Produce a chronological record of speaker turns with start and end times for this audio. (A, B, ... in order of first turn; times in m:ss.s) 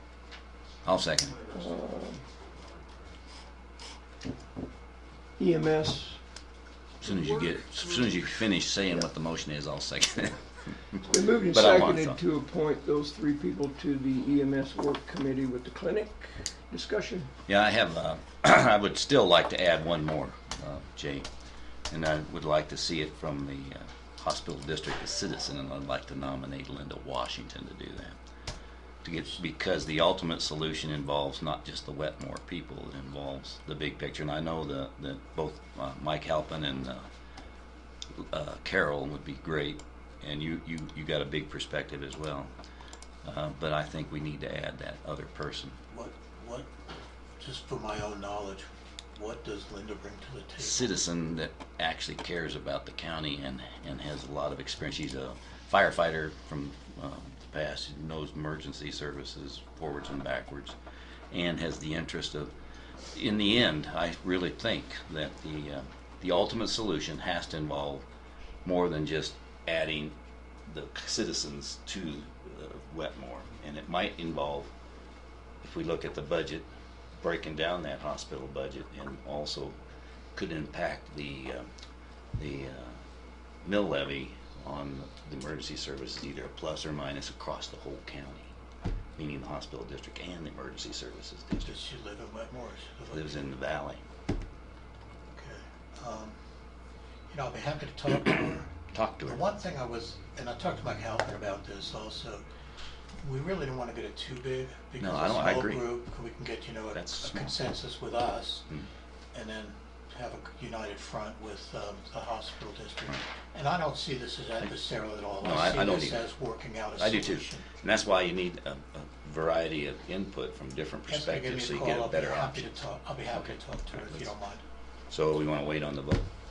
0:00.8-0:01.4 A
0:01.5-0:02.2 B
0:05.4-0:06.2 B
0:07.0-0:12.2 A
0:11.1-0:17.3 B
0:17.5-0:21.3 A
0:21.9-0:28.2 A
0:29.0-0:37.1 A
0:38.2-0:42.5 A
0:43.2-0:45.8 A
0:45.9-0:46.7 C
0:47.4-0:50.9 C
0:50.6-1:00.8 A
1:01.3-1:02.5 A
1:03.1-1:08.0 A
1:08.6-1:10.2 A
1:10.7-1:14.7 A
1:15.6-1:19.8 A
1:20.4-1:21.7 A
1:22.4-1:23.0 A
1:23.6-1:28.5 A
1:29.2-1:31.8 A
1:31.6-1:33.4 C
1:33.1-1:34.0 A
1:35.4-1:36.4 C
1:37.3-1:38.7 C
1:38.2-1:39.4 A
1:39.2-1:42.4 C
1:43.2-1:48.7 C
1:45.0-1:45.9 A
1:46.9-1:47.6 A
1:49.3-1:57.7 C
1:55.4-1:56.2 A
1:57.0-2:02.7 A
2:01.1-2:04.6 C
2:03.3-2:04.3 A
2:05.1-2:06.3 A